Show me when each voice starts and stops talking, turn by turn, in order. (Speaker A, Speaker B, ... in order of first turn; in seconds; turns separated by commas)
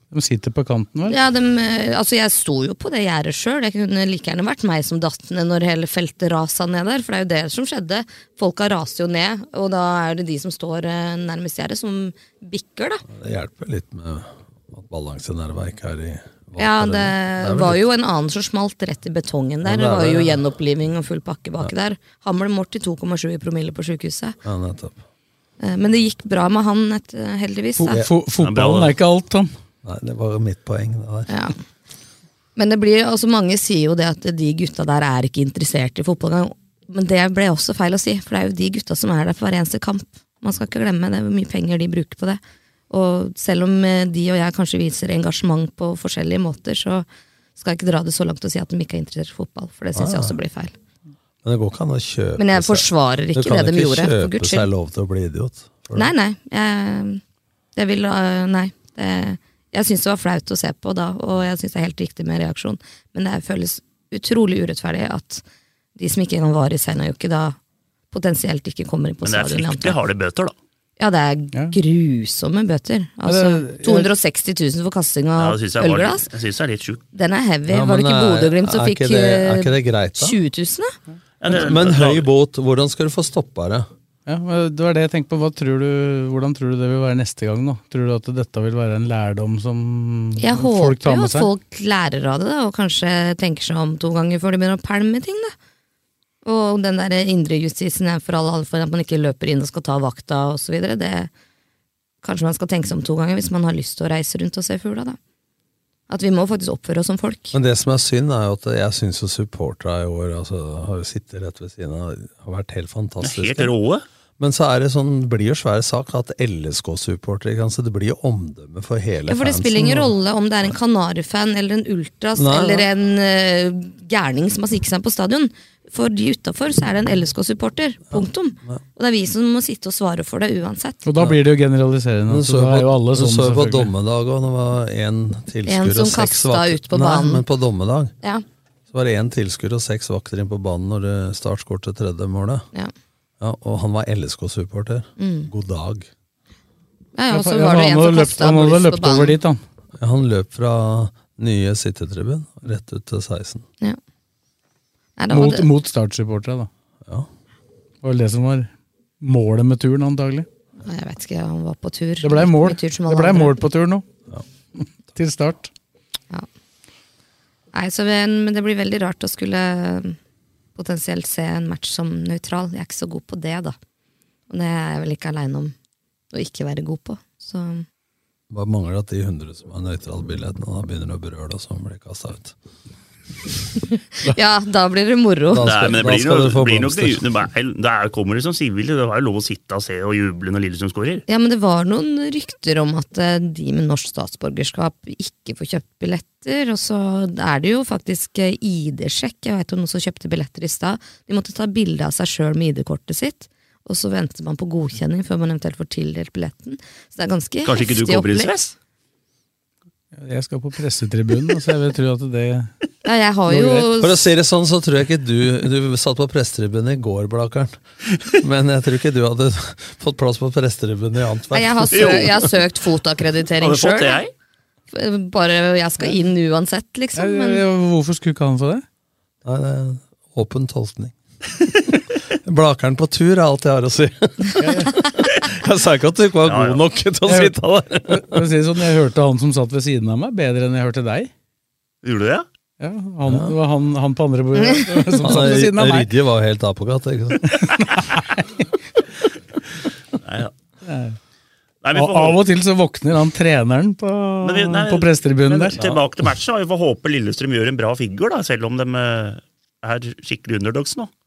Speaker A: 0.1-1.2, Speaker B: 1.1-13.0, Speaker C: 13.1-17.9, Speaker B: 16.6-24.4, Speaker C: 19.6-20.4, Speaker C: 24.4-25.0, Speaker B: 25.6-28.0, Speaker A: 27.8-29.5, Speaker D: 28.4-28.9, Speaker C: 29.8-31.3, Speaker B: 31.3-31.5, Speaker B: 32.5-47.0, Speaker B: 47.6-50.7, Speaker C: 49.9-50.4, Speaker C: 51.4-56.1, Speaker B: 52.4-54.7, Speaker B: 55.9-57.2, Speaker B: 57.7-65.4, Speaker B: 66.0-67.6, Speaker B: 68.1-70.0, Speaker D: 69.2-70.5, Speaker B: 71.0-76.3, Speaker A: 73.2-74.1, Speaker D: 75.4-77.0, Speaker B: 77.1-80.9, Speaker C: 77.7-80.4, Speaker D: 81.4-82.2, Speaker C: 81.5-83.9, Speaker A: 84.2-91.5, Speaker B: 90.4-95.5, Speaker B: 96.4-101.3, Speaker B: 102.2-105.2, Speaker B: 106.1-107.5, Speaker C: 107.5-113.7, Speaker D: 113.2-114.0, Speaker C: 114.4-120.1, Speaker B: 119.3-131.0, Speaker C: 122.3-122.9, Speaker C: 128.1-128.8, Speaker A: 131.0-133.9, Speaker C: 132.3-138.1, Speaker B: 135.7-137.4, Speaker C: 138.9-142.7, Speaker C: 143.4-146.1, Speaker B: 145.2-145.5, Speaker B: 147.1-149.4, Speaker A: 147.3-149.6, Speaker C: 150.0-153.6, Speaker B: 155.2-155.7, Speaker A: 155.3-156.7, Speaker A: 158.0-158.7, Speaker A: 159.2-160.5, Speaker B: 160.8-163.6, Speaker A: 162.2-164.0, Speaker A: 164.8-165.7, Speaker B: 167.7-170.2, Speaker B: 170.8-173.8, Speaker B: 174.5-175.7, Speaker B: 176.3-177.8, Speaker C: 178.5-182.5, Speaker B: 184.2-185.9, Speaker C: 185.5-187.2, Speaker D: 185.6-191.2, Speaker B: 191.3-208.6, Speaker D: 207.6-208.7, Speaker A: 210.1-212.7, Speaker B: 213.0-214.2, Speaker A: 213.5-213.9, Speaker C: 214.0-222.4, Speaker B: 221.5-224.2, Speaker D: 221.9-222.5, Speaker D: 223.6-224.3, Speaker B: 224.9-227.6, Speaker A: 227.2-228.8, Speaker C: 229.4-231.2, Speaker C: 232.4-238.4, Speaker A: 234.6-234.9, Speaker D: 236.4-236.8, Speaker A: 237.3-237.6, Speaker A: 238.1-241.3, Speaker D: 242.0-242.4, Speaker A: 242.8-246.1, Speaker C: 243.2-243.5, Speaker C: 245.2-247.5, Speaker A: 247.4-248.6, Speaker D: 250.2-250.5, Speaker A: 250.8-251.2, Speaker D: 251.8-252.4, Speaker A: 251.9-255.8, Speaker D: 254.4-261.1